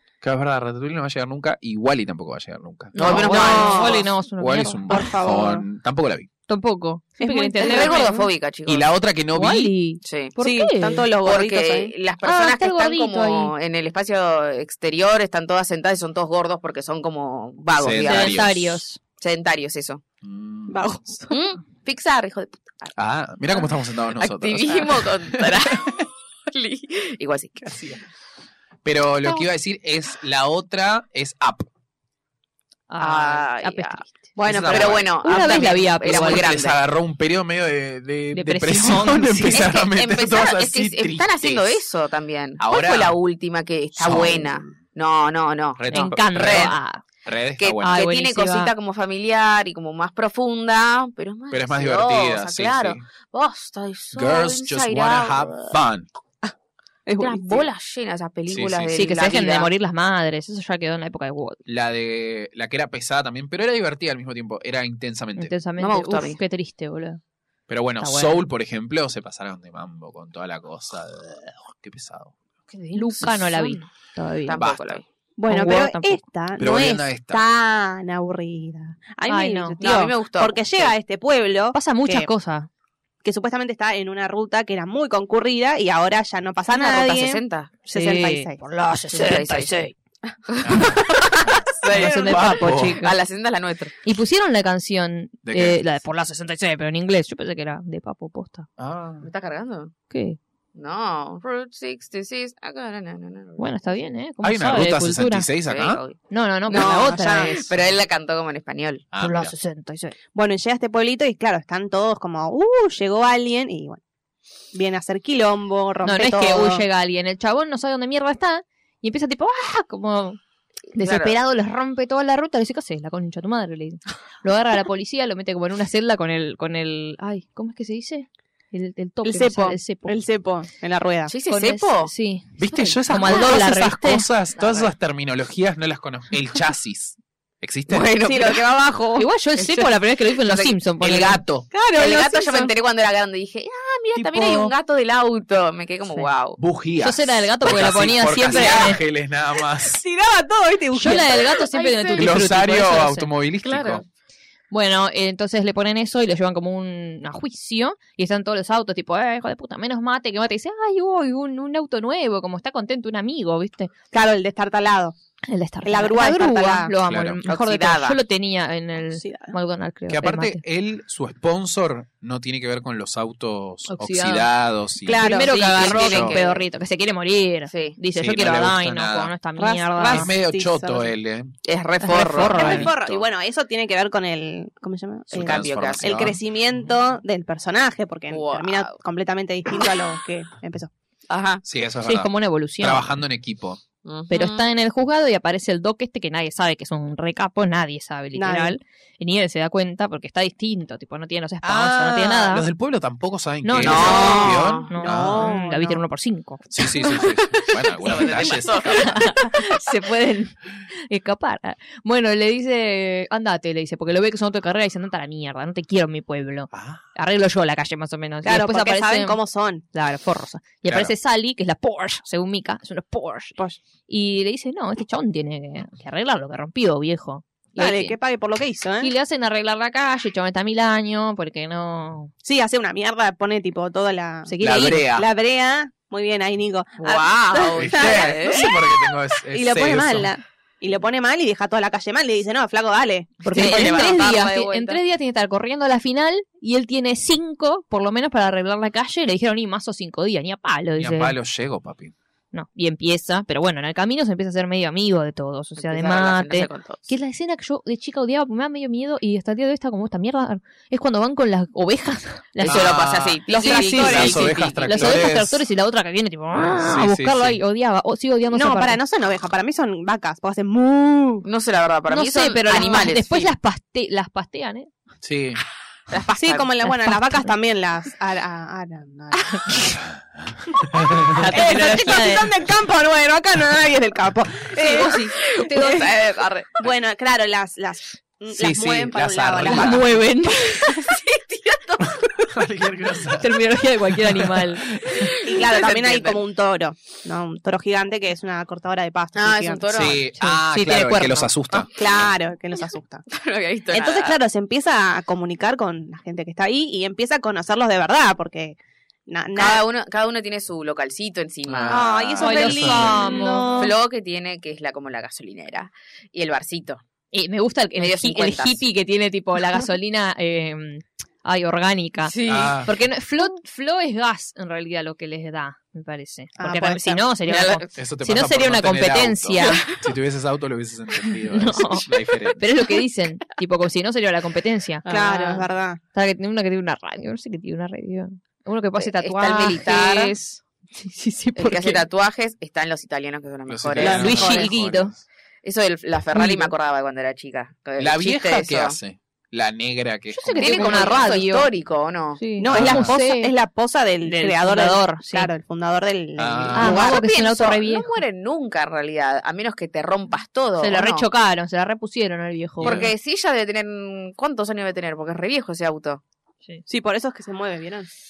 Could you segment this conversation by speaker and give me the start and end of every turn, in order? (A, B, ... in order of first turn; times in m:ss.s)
0:00.2-0:03.5 A
0:02.9-0:05.0 B
0:03.0-0:04.1 C
0:03.0-0:04.1 D
0:04.4-0:06.3 A
0:04.9-0:05.7 D
0:06.5-0:08.3 B
0:07.2-0:08.1 D
0:07.6-0:08.9 C
0:08.7-0:09.7 A
0:09.3-0:11.1 B
0:10.0-0:10.3 C
0:10.4-0:11.9 D
0:11.2-0:18.4 C
0:12.2-0:13.5 B
0:17.7-0:18.8 A
0:18.0-0:19.0 B
0:19.2-0:20.0 C
0:20.2-0:20.8 A
0:20.7-0:21.4 D
0:21.3-0:22.9 C
0:23.0-0:26.0 A
0:23.5-0:27.8 C
0:27.6-0:28.0 A
0:28.8-0:31.7 A
0:32.9-0:34.3 B
0:33.0-0:34.0 C
0:34.4-0:35.0 D
0:34.4-0:35.1 A
0:34.7-0:36.8 C
0:35.2-0:36.5 B
0:36.0-0:41.8 A
0:38.3-0:39.6 B
0:39.5-0:46.8 C
0:42.6-0:43.2 A
0:44.0-0:44.8 A
0:45.8-0:48.1 A
0:45.9-0:47.0 B
0:47.6-0:55.7 C
0:47.8-0:48.7 B
0:51.5-0:53.0 A
0:54.1-0:56.1 A
0:57.1-0:57.7 D
0:57.2-0:59.7 C
0:58.5-0:59.1 A
0:58.9-1:01.6 B
1:01.7-1:05.5 A
1:05.4-1:07.2 B
1:05.8-1:06.4 C
1:07.7-1:12.4 A
1:08.0-1:08.4 B
1:12.7-1:13.8 C
1:12.9-1:14.6 B
1:14.5-1:15.0 C
1:14.6-1:15.0 A
1:15.4-1:22.3 D
1:15.5-1:16.2 B
1:16.6-1:17.4 A
1:19.3-1:19.8 B
1:19.8-1:20.9 C
1:21.7-1:22.7 B
1:23.2-1:28.6 D
1:26.7-1:27.8 C
1:27.9-1:29.9 B
1:29.1-1:29.8 C
1:30.5-1:34.0 C
1:30.6-1:33.0 A
1:31.9-1:33.1 B
1:34.0-1:38.7 B
1:35.4-1:35.8 A
1:38.8-1:39.3 A
1:39.2-1:39.9 C
1:40.1-1:40.4 B
1:40.8-1:43.9 C
1:43.6-1:45.5 B
1:44.4-1:46.0 A
1:45.7-1:49.1 C
1:46.3-1:47.7 B
1:46.7-1:47.5 D
1:49.1-1:49.6 A
1:49.2-1:50.2 B
1:50.4-1:54.0 D
1:54.7-1:56.8 D
1:56.0-2:00.4 B
2:01.0-2:01.4 C
2:01.0-2:10.2 B
2:09.2-2:11.3 D
2:11.3-2:12.1 C
2:11.5-2:14.3 B
2:12.6-2:18.1 A
2:12.7-2:13.6 C
2:14.6-2:14.9 C
2:17.9-2:18.7 C
2:18.2-2:19.3 D
2:19.2-2:21.4 B
2:19.6-2:20.8 C
2:21.0-2:21.7 A
2:21.7-2:22.7 D
2:22.0-2:26.6 C
2:24.2-2:24.7 A
2:26.6-2:30.0 A
2:27.0-2:29.0 B
2:28.5-2:28.9 D
2:29.6-2:31.7 D
2:30.9-2:33.3 B
2:31.7-2:32.4 C
2:32.2-2:34.0 A
2:33.6-2:34.0 C
2:34.7-2:43.9 B
2:44.1-2:45.2 D
2:45.5-2:50.6 B
2:45.8-2:47.0 D
2:47.0-2:47.4 A
2:47.5-2:48.2 C
2:49.1-2:49.6 D
2:50.1-2:56.4 A
2:53.9-2:54.5 B
2:55.1-2:55.6 D
2:55.2-3:00.3 B
2:55.5-2:56.7 C
2:57.7-2:58.0 C
2:58.1-2:59.3 A
2:59.6-3:01.1 D
3:00.0-3:01.5 A
3:01.6-3:03.3 C
3:02.0-3:02.9 B
3:02.5-3:10.9 D
3:05.3-3:06.4 A
3:05.4-3:06.3 C
3:08.3-3:09.0 C
3:11.3-3:11.6 C
3:11.6-3:13.8 A
3:12.0-3:13.1 B
3:14.0-3:14.7 C
3:14.3-3:22.7 B
3:18.4-3:18.8 D
3:21.6-3:25.5 A
3:23.6-3:27.4 B
3:23.8-3:25.0 C
3:25.0-3:26.0 D
3:26.7-3:29.3 A
3:28.0-3:29.7 C
3:28.0-3:39.4 B
3:36.7-3:37.0 A
3:38.4-3:39.8 D
3:39.9-3:43.6 B
3:40.8-3:41.1 A
3:44.1-3:48.2 B
3:47.8-3:49.1 D
3:49.0-3:52.3 B
3:52.4-4:03.7 D
3:54.5-3:55.0 B
3:54.6-3:55.3 A
3:57.0-3:58.7 C
3:57.8-4:00.3 A
4:03.4-4:05.0 C
4:03.5-4:11.4 B
4:03.6-4:04.1 A
4:11.0-4:12.1 A
4:12.5-4:23.0 B
4:15.8-4:17.1 C
4:22.6-4:25.3 C
4:22.6-4:23.4 A
4:23.5-4:29.0 B
4:23.6-4:24.5 D
4:23.9-4:25.6 A
4:26.6-4:27.6 A
4:28.5-4:31.5 D
4:31.4-4:33.5 C
4:32.1-4:34.9 B
4:35.2-4:35.6 A
4:36.1-4:36.7 C
4:36.3-4:40.0 D
4:36.8-4:37.5 B
4:40.4-4:41.4 A
4:41.3-4:46.1 D
4:41.3-4:42.5 B
4:44.8-4:46.1 B
4:45.4-4:46.9 C
4:46.8-4:50.1 D
4:48.5-4:50.1 A
4:49.7-4:51.1 B
4:50.8-4:52.0 C
4:52.5-4:53.5 A
4:53.4-4:55.0 B
4:54.1-4:55.2 A
4:55.1-4:56.4 C
4:55.4-4:59.9 D
4:59.4-5:00.2 C
4:59.9-5:01.9 A
5:00.4-5:01.5 B
5:01.9-5:03.2 D
5:03.3-5:04.4 C
5:03.9-5:09.8 D
5:09.6-5:12.6 C
5:11.7-5:13.3 A
5:11.9-5:14.0 D
5:12.4-5:13.8 B
5:13.7-5:17.0 C
5:17.3-5:29.9 B
5:18.0-5:18.8 C
5:22.3-5:22.8 C
5:22.5-5:22.9 A
5:26.6-5:27.3 D
5:27.4-5:27.9 C
5:28.0-5:32.6 A
5:31.5-5:35.1 B
5:35.1-5:35.6 C
5:35.1-5:36.0 D
5:36.1-5:42.0 B
5:39.0-5:40.3 C
5:41.6-5:44.7 C
5:43.7-5:45.2 A
5:44.0-5:44.7 D
5:44.0-5:45.1 B
5:45.6-5:49.0 C
5:46.3-5:46.7 B
5:48.0-5:51.2 A
5:50.3-5:51.7 B
5:50.6-5:52.5 C
5:52.4-5:53.5 B
5:52.6-5:57.2 D
5:52.7-5:53.2 A
5:54.3-5:55.5 B
5:56.4-5:57.0 A
5:56.8-5:58.2 B
5:56.8-6:01.3 C
6:00.8-6:03.1 B
6:02.8-6:03.1 A
6:02.8-6:06.2 C
6:06.9-6:08.1 D